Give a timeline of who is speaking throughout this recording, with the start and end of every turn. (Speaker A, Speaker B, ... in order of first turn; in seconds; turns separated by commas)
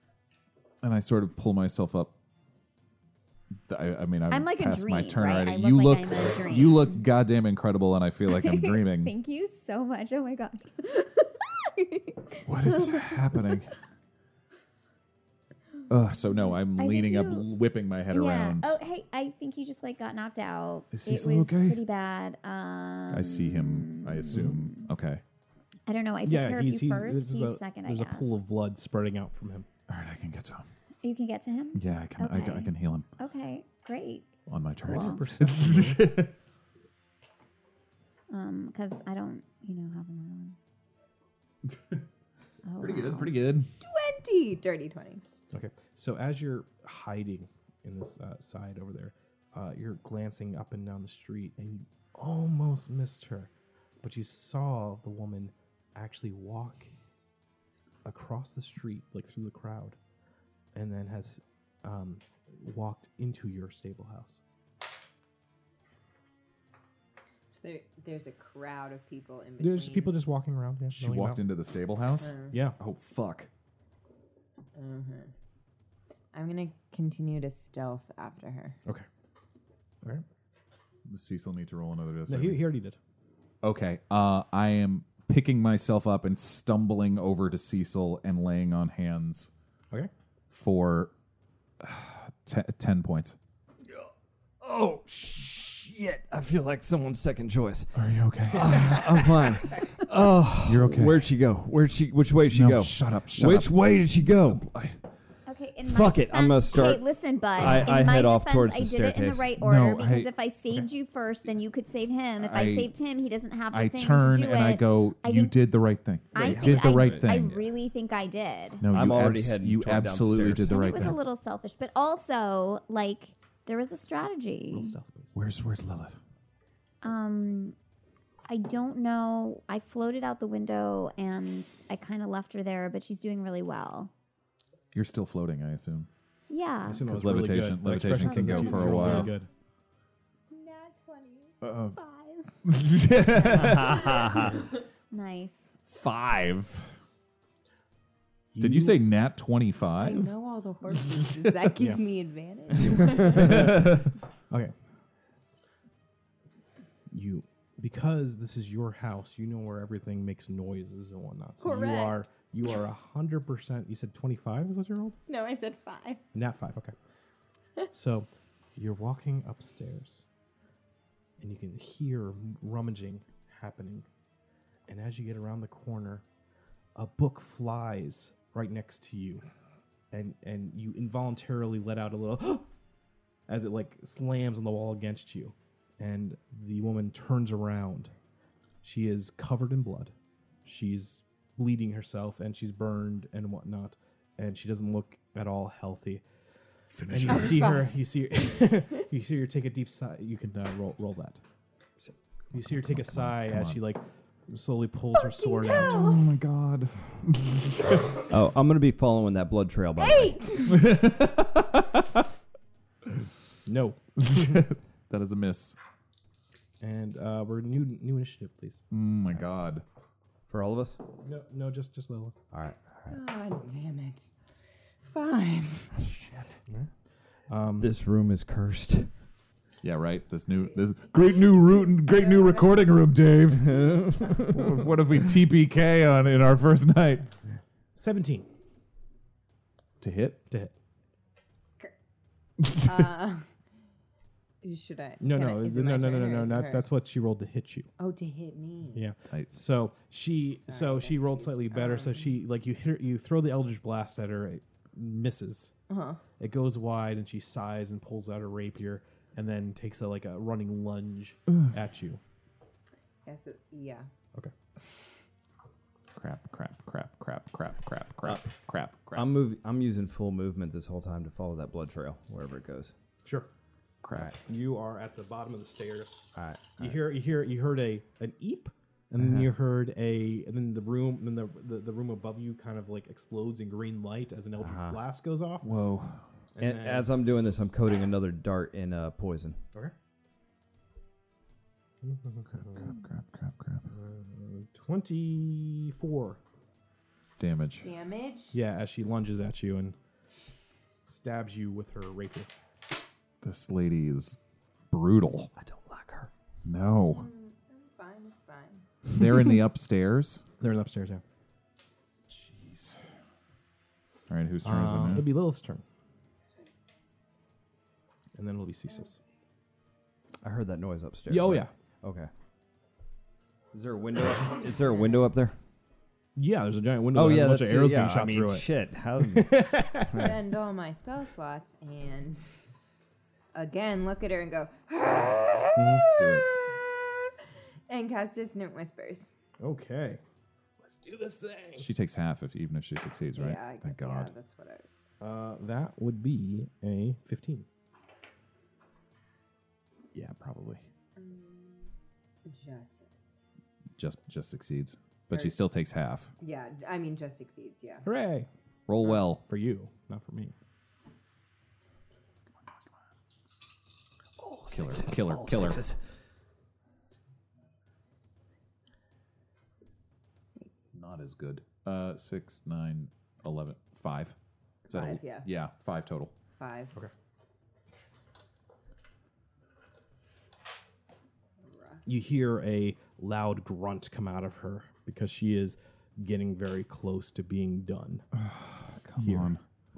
Speaker A: 0.8-2.1, Speaker A: 3.7-9.1, Speaker B: 4.3-7.0, Speaker B: 8.3-13.6, Speaker A: 12.4-13.7, Speaker A: 15.9-18.7, Speaker B: 16.8-17.5, Speaker B: 18.1-24.9, Speaker A: 20.9-21.8, Speaker A: 23.1-25.2, Speaker B: 25.9-28.3, Speaker C: 26.2-29.7, Speaker A: 29.9-30.7, Speaker B: 31.0-34.3, Speaker A: 31.7-33.1, Speaker A: 34.5-36.3, Speaker B: 34.8-35.2, Speaker C: 34.9-36.1, Speaker B: 38.3-40.6, Speaker A: 41.7-42.0, Speaker B: 42.6-43.3, Speaker A: 42.8-43.7, Speaker D: 43.8-45.2, Speaker C: 45.5-56.9, Speaker C: 58.0-60.0, Speaker C: 60.7-64.4, Speaker D: 67.5-70.2, Speaker C: 69.6-71.4, Speaker A: 70.9-73.5, Speaker D: 72.2-72.6, Speaker D: 74.7-75.3, Speaker D: 76.3-78.8, Speaker A: 81.1-82.6, Speaker C: 82.3-83.0, Speaker A: 83.6-89.5, Speaker A: 90.5-91.1, Speaker A: 91.8-93.3, Speaker E: 94.6-97.9, Speaker A: 97.9-99.1, Speaker E: 98.5-104.6, Speaker A: 100.6-101.3, Speaker A: 102.4-103.8, Speaker A: 104.5-105.0, Speaker B: 105.5-115.5, Speaker E: 105.8-109.5, Speaker A: 109.6-110.3, Speaker A: 112.4-112.9, Speaker A: 113.7-117.6, Speaker B: 116.3-118.8, Speaker E: 116.4-117.3, Speaker A: 118.8-121.2, Speaker E: 118.9-121.1, Speaker B: 120.7-125.0, Speaker C: 124.7-125.3, Speaker A: 125.3-126.2, Speaker B: 127.0-127.8, Speaker B: 128.4-134.1, Speaker A: 134.9-136.1, Speaker B: 136.5-137.1, Speaker C: 136.9-139.5, Speaker A: 137.0-139.3, Speaker B: 138.2-139.3, Speaker D: 140.5-141.5, Speaker A: 141.6-141.9, Speaker B: 141.9-142.4, Speaker A: 142.6-144.4, Speaker D: 143.4-144.2, Speaker E: 143.4-144.5, Speaker B: 145.1-145.8, Speaker A: 145.9-146.9, Speaker C: 148.5-149.0, Speaker A: 148.6-150.3, Speaker D: 149.9-153.8, Speaker E: 152.8-153.7, Speaker A: 152.9-154.1, Speaker C: 153.3-153.9, Speaker C: 157.1-165.2, Speaker D: 161.6-162.3, Speaker D: 165.3-166.2, Speaker C: 166.3-166.9, Speaker C: 167.9-170.2, Speaker C: 171.4-174.1, Speaker C: 174.9-176.2, Speaker C: 176.9-179.4, Speaker C: 180.1-182.7, Speaker C: 183.5-188.1, Speaker C: 188.8-190.1, Speaker C: 190.6-196.2, Speaker A: 196.9-197.8, Speaker C: 197.1-201.4, Speaker D: 197.3-198.0, Speaker D: 198.6-199.0, Speaker C: 202.5-206.1, Speaker A: 202.5-203.8, Speaker D: 205.2-206.2, Speaker A: 205.7-208.3, Speaker E: 208.3-210.4, Speaker D: 210.0-210.8, Speaker A: 210.7-212.0, Speaker C: 213.7-214.6, Speaker A: 214.2-215.8, Speaker C: 216.8-218.8, Speaker A: 218.9-219.8, Speaker E: 220.5-221.0, Speaker C: 221.2-222.3, Speaker E: 222.5-223.2, Speaker D: 223.1-224.3, Speaker D: 225.0-226.1, Speaker E: 226.0-226.5, Speaker C: 227.5-227.9, Speaker E: 227.8-229.1, Speaker A: 229.8-237.3, Speaker D: 231.5-232.9, Speaker E: 233.6-234.6, Speaker C: 237.9-238.5, Speaker A: 240.0-240.4, Speaker D: 242.7-243.5, Speaker D: 244.6-246.8, Speaker C: 245.2-247.9, Speaker D: 248.0-249.1, Speaker C: 248.9-255.7, Speaker D: 250.7-252.3, Speaker D: 255.9-256.2, Speaker C: 256.4-262.2, Speaker D: 263.2-264.1, Speaker A: 266.1-269.3, Speaker E: 269.1-272.9, Speaker C: 273.2-273.5, Speaker A: 274.0-274.4, Speaker C: 274.1-285.7, Speaker E: 276.3-277.0, Speaker E: 279.2-279.5, Speaker E: 284.6-285.0, Speaker A: 285.6-286.2, Speaker C: 286.5-287.1, Speaker E: 286.6-289.6, Speaker C: 292.0-292.9, Speaker A: 292.5-293.9, Speaker C: 293.9-296.4, Speaker A: 297.4-297.9, Speaker D: 297.8-298.6, Speaker C: 298.5-299.9, Speaker C: 301.1-302.5, Speaker A: 303.4-304.4, Speaker A: 304.9-305.5, Speaker E: 305.6-306.3, Speaker A: 306.6-307.3, Speaker D: 307.1-308.9, Speaker A: 309.1-310.4, Speaker C: 310.6-311.2, Speaker A: 312.3-313.0, Speaker A: 314.3-315.3, Speaker C: 314.6-315.8, Speaker C: 318.3-319.2, Speaker E: 320.4-322.3, Speaker C: 321.3-321.7, Speaker E: 323.7-325.6, Speaker D: 324.8-325.2, Speaker C: 326.4-330.3, Speaker E: 327.1-330.4, Speaker D: 330.1-332.7, Speaker D: 333.5-336.5, Speaker C: 335.8-336.1, Speaker A: 336.1-336.5, Speaker D: 337.9-339.3, Speaker C: 339.6-340.2, Speaker C: 340.8-341.9, Speaker A: 341.8-344.3, Speaker D: 343.3-345.0, Speaker C: 345.2-347.6, Speaker A: 350.1-350.8, Speaker D: 351.1-351.9, Speaker D: 352.4-353.4, Speaker A: 354.0-356.3, Speaker D: 356.4-358.1, Speaker C: 358.0-358.5, Speaker A: 358.9-359.4, Speaker C: 359.4-360.5, Speaker E: 364.4-366.0, Speaker A: 364.7-365.8, Speaker A: 370.9-374.3, Speaker A: 374.9-376.3, Speaker D: 374.9-375.5, Speaker D: 376.6-376.9, Speaker D: 381.7-382.0, Speaker C: 382.1-388.2, Speaker A: 388.3-389.6, Speaker C: 389.2-389.5